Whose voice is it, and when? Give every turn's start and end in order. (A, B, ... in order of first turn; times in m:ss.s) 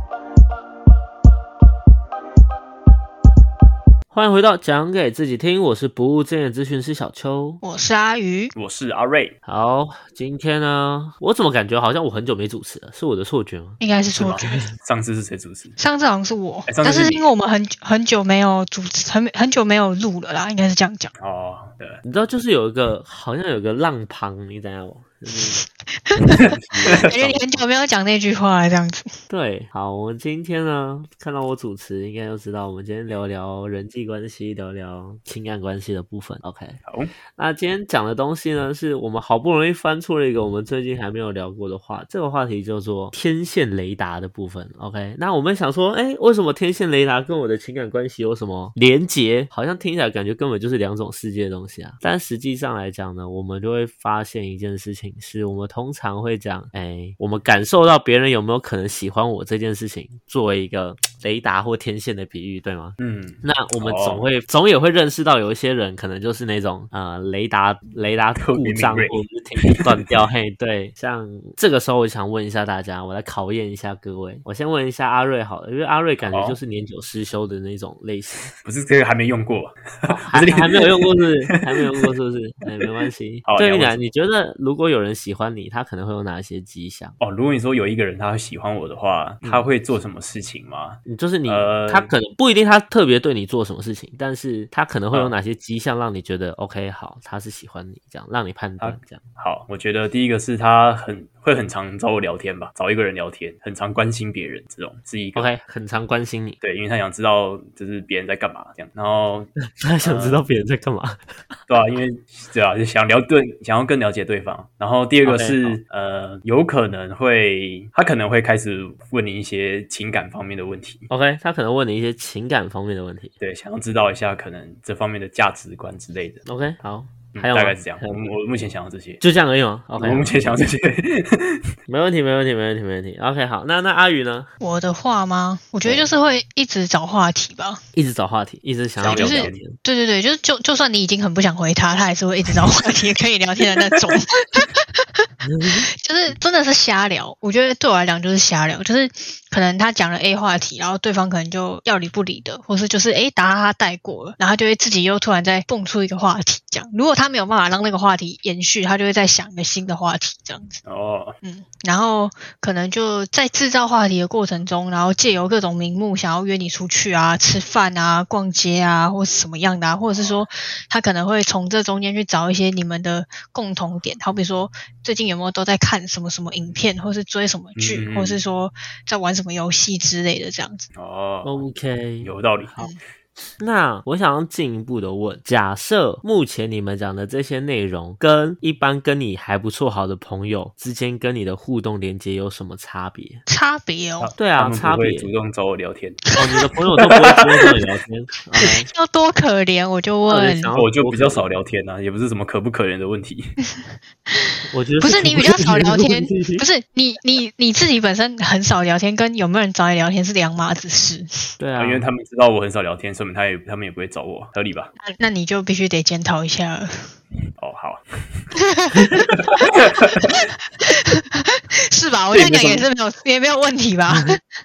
0:04.1-0:07.6 A
0:07.6-0:08.5 B
0:08.6-0:09.4 C
0:09.5-0:14.7 A
0:13.8-0:14.6 B
0:14.2-0:15.8 C
0:15.8-0:21.1 B
0:16.7-0:17.3 C
0:21.2-0:22.0 C
0:22.0-0:25.6 A
0:26.1-0:29.1 B
0:26.3-0:27.1 C
0:26.7-0:27.6 A
0:29.3-0:36.8 A
0:37.4-1:18.5 A
1:03.0-1:04.2 C
1:08.4-1:09.9 C
1:16.2-1:16.6 C
1:18.6-1:21.1 C
1:20.1-1:27.2 A
1:23.4-1:24.0 C
1:27.2-1:32.1 C
1:29.4-1:29.7 A
1:31.1-1:39.2 A
1:38.8-1:45.5 C
1:45.4-1:46.6 A
1:46.6-1:49.5 C
1:49.8-1:51.6 A
1:50.0-1:50.4 C
1:51.7-2:01.1 C
1:55.2-1:55.8 A
2:01.1-2:03.3 A
2:03.4-2:06.4 C
2:06.4-2:08.3 A
2:07.4-2:09.2 C
2:09.2-2:10.5 A
2:10.0-2:11.4 C
2:11.9-2:14.5 A
2:14.6-2:17.8 B
2:15.8-2:16.1 A
2:18.0-2:19.7 A
2:19.0-2:19.6 C
2:19.1-2:25.3 B
2:25.4-2:25.9 A
2:26.0-2:40.8 B
2:40.8-2:41.4 C
2:41.4-3:00.9 B
2:50.2-2:50.5 C
2:57.8-2:58.4 C
3:01.0-3:01.6 C
3:01.4-3:02.3 A
3:02.2-3:02.8 C
3:03.6-3:13.4 A
3:13.5-3:14.3 B
3:14.2-3:16.3 C
3:14.4-3:15.3 A
3:16.4-3:18.9 A
3:18.6-3:20.7 B
3:20.3-3:21.5 A
3:20.8-3:23.4 C
3:23.8-3:31.5 B
3:24.7-3:26.7 A
3:31.6-3:32.1 A
3:31.8-3:34.9 C
3:35.0-3:37.1 B
3:37.6-3:38.5 C
3:38.6-3:39.0 B
3:39.8-3:40.2 C
3:40.1-3:44.4 B
3:42.3-3:42.9 C